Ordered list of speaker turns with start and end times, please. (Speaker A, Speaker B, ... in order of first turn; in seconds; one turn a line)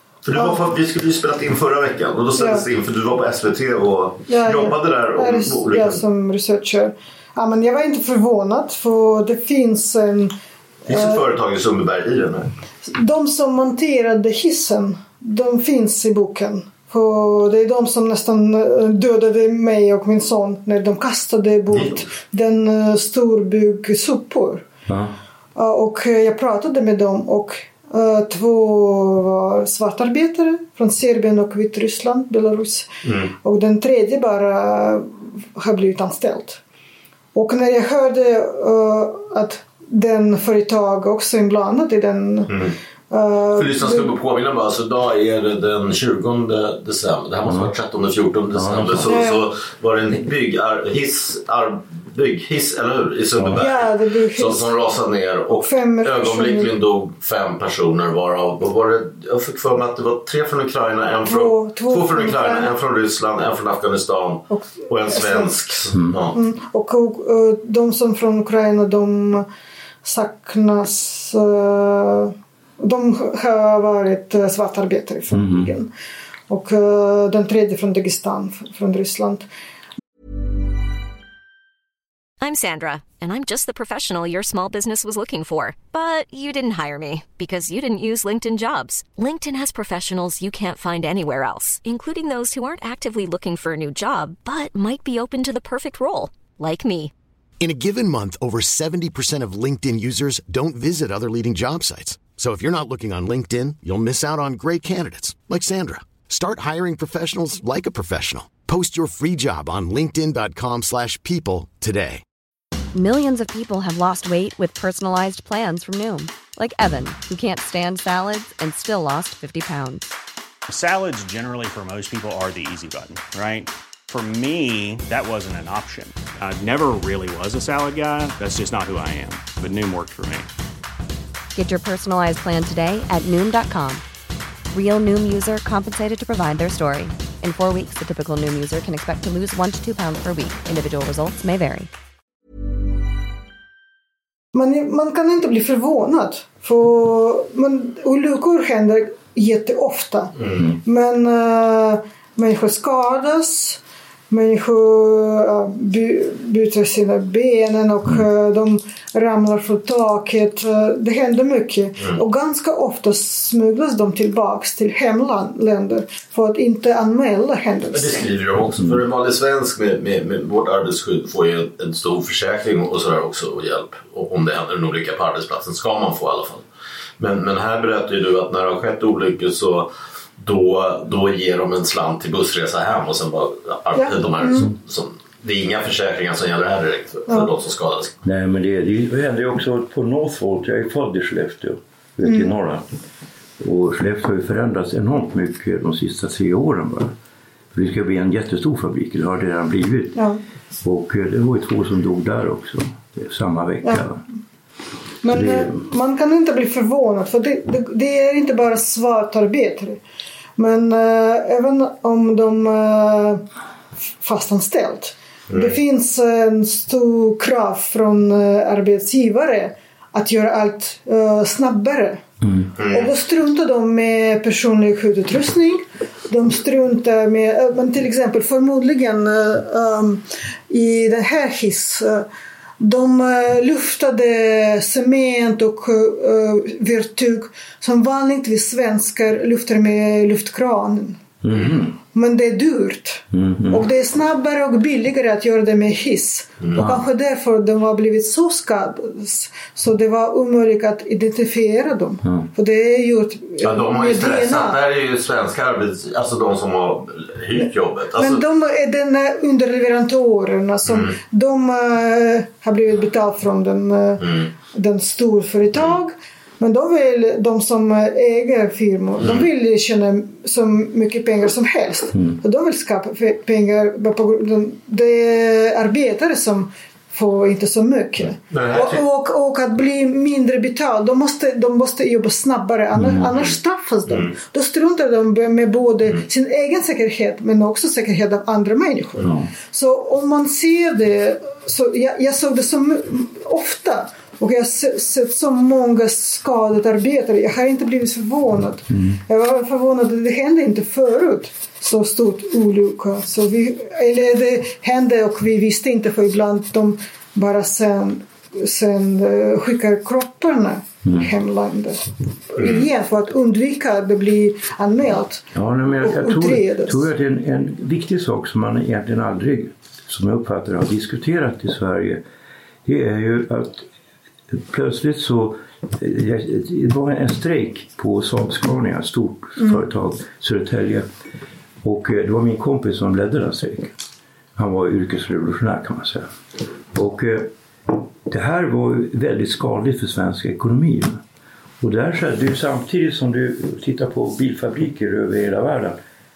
Speaker A: 0.2-6.0
Speaker B: 4.3-10.3
Speaker A: 10.9-12.5
Speaker B: 10.9-11.2
Speaker B: 12.8-24.6
Speaker A: 21.7-22.0
Speaker C: 24.9-25.1
Speaker B: 25.6-32.9
Speaker A: 33.0-33.3
Speaker B: 33.4-36.6
Speaker B: 37.4-42.5
Speaker A: 42.5-42.8
Speaker B: 43.1-44.1
Speaker A: 43.6-66.4
Speaker C: 47.5-47.7
Speaker C: 48.5-49.2
Speaker B: 49.1-49.5
Speaker C: 53.4-53.6
Speaker B: 53.6-54.7
Speaker B: 55.5-56.7
Speaker B: 61.3-62.7
Speaker B: 64.5-65.5
Speaker C: 65.9-66.2
Speaker B: 66.3-69.5
Speaker B: 70.0-75.9
Speaker C: 75.3-75.7
Speaker B: 76.5-79.5
Speaker D: 82.4-97.1
Speaker E: 97.6-112.2
Speaker F: 112.9-120.0
Speaker G: 120.7-130.5
Speaker F: 131.6-134.0
Speaker F: 134.7-141.9
Speaker B: 144.5-168.2
Speaker A: 150.4-150.6
Speaker A: 167.9-176.7
Speaker A: 177.2-179.9
Speaker A: 180.4-188.2
Speaker B: 183.9-184.7
Speaker C: 188.2-192.8
Speaker B: 192.2-192.5
Speaker C: 193.6-197.2
Speaker C: 197.7-200.2
Speaker B: 200.2-200.4
Speaker C: 200.8-204.2
Speaker B: 205.2-210.0
Speaker C: 205.3-205.8
Speaker B: 210.6-213.4
Speaker B: 214.2-222.2
Speaker A: 215.5-215.8
Speaker C: 222.4-222.7
Speaker A: 222.8-223.1
Speaker B: 222.8-232.3
Speaker B: 232.8-241.2
Speaker C: 241.4-242.0
Speaker B: 242.1-254.8
Speaker C: 243.3-243.9
Speaker C: 246.8-247.0
Speaker A: 253.6-258.4
Speaker B: 257.6-315.4
Speaker A: 260.9-261.1
Speaker A: 264.2-264.5
Speaker A: 269.2-269.5
Speaker C: 272.1-272.4
Speaker A: 278.5-279.0
Speaker C: 282.9-283.3
Speaker C: 289.2-289.5
Speaker C: 298.9-299.2
Speaker C: 311.0-311.3
Speaker A: 312.6-312.9
Speaker C: 315.5-322.2
Speaker B: 316.0-317.1
Speaker C: 322.9-323.9
Speaker C: 324.5-331.1
Speaker C: 331.8-333.9
Speaker C: 334.6-336.3
Speaker C: 336.9-341.2
Speaker C: 341.8-346.0